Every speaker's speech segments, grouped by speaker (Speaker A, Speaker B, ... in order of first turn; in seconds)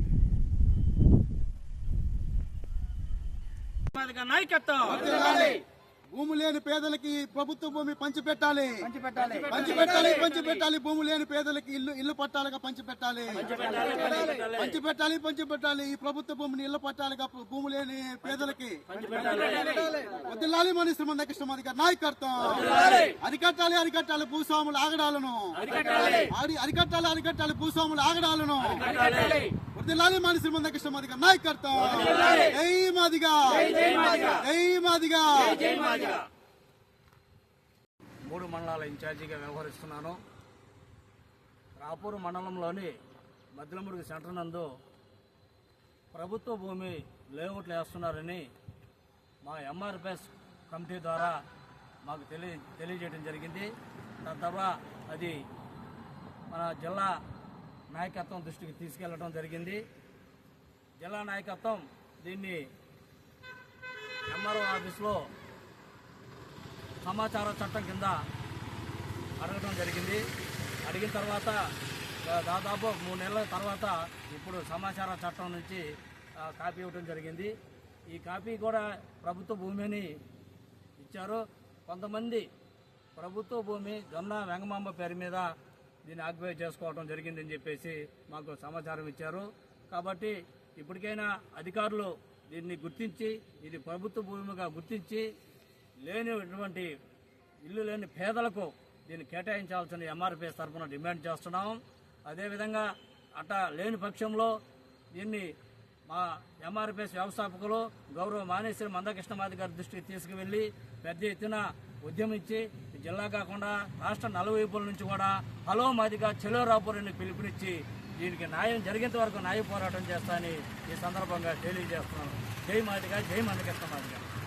Speaker A: 3.9-5.1, 13.6-14.7, 19.1-19.8, 38.2-40.2, 41.8-42.9, 43.5-44.7, 46.1-48.5, 49.4-51.4, 52.0-53.7, 54.2-55.4, 56.5-57.1, 57.9-59.8, 61.0-62.6, 64.3-65.2, 67.0-68.2, 69.4-70.2, 70.8-71.6, 72.2-75.8, 76.4-77.5, 78.1-80.1, 81.0-82.5, 83.2-85.5, 86.0-95.3, 96.0-96.9, 97.6-104.5, 105.1-105.5, 106.1-124.2
Speaker B: 5.0-5.6, 6.1-13.6, 14.5-19.5, 20.1-28.9, 29.8-35.9